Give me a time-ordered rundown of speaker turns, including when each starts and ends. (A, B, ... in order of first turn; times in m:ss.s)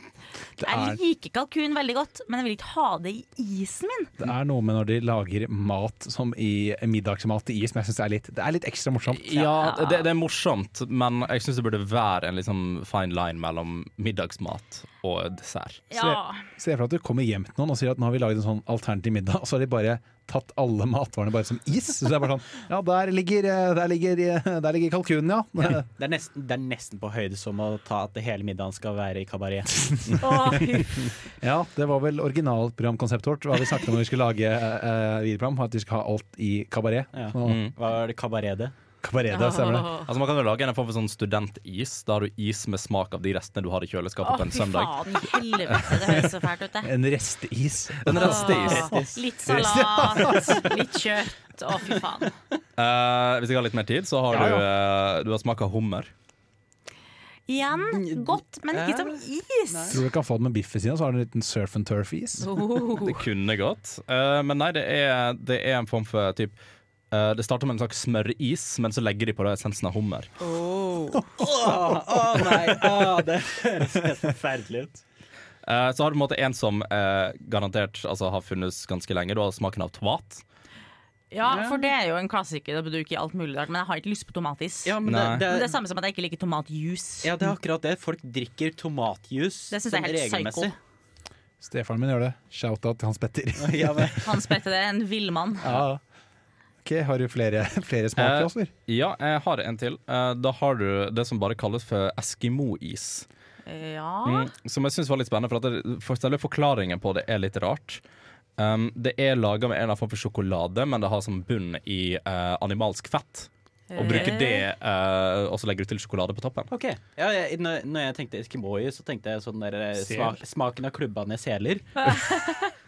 0:00.6-0:01.0 A
0:00.6-0:04.1 B
0:04.2-0:09.3 A
0:09.1-0:15.8 C
0:09.4-0:10.1 B
0:15.9-0:16.4 B
0:16.0-0:25.9 A
0:26.0-0:30.2 D
0:29.8-0:37.7 A
0:30.2-0:31.1 B
0:37.1-0:38.7 D
0:37.4-0:37.7 C
0:39.0-0:39.9 A
0:39.3-0:40.1 B
0:40.0-0:45.9 C
0:44.2-0:46.9 B
0:46.8-0:48.7 A
0:48.0-0:49.0 C
0:48.1-0:52.3 B
0:48.3-0:49.2 D
0:49.4-0:50.7 A
0:52.8-0:56.1 C
0:54.3-0:54.6 D
0:54.3-0:54.6 A
0:57.5-1:00.0 B
0:57.9-1:00.0 D
0:59.9-1:02.6 A
1:02.4-1:03.2 B
1:03.0-1:06.6 C
1:07.1-1:10.3 C
1:10.4-1:11.3 B
1:11.1-1:13.2 A
1:11.4-1:15.0 D
1:15.6-1:20.4 C
1:21.3-1:27.3 B
1:21.4-1:21.9 D
1:24.8-1:25.7 D
1:25.0-1:25.4 C
1:27.2-1:30.8 D
1:29.7-1:30.7 B
1:31.6-1:34.3 A
1:33.6-1:34.2 D
1:34.2-1:35.7 B
1:35.6-1:36.0 A
1:36.8-1:38.7 A
1:38.2-1:43.2 C
1:43.6-1:44.5 B
1:44.2-1:48.0 C
1:48.6-1:56.7 C
1:53.9-1:54.6 B
1:56.7-2:02.2 D
1:59.9-2:00.4 A
2:02.2-2:02.6 B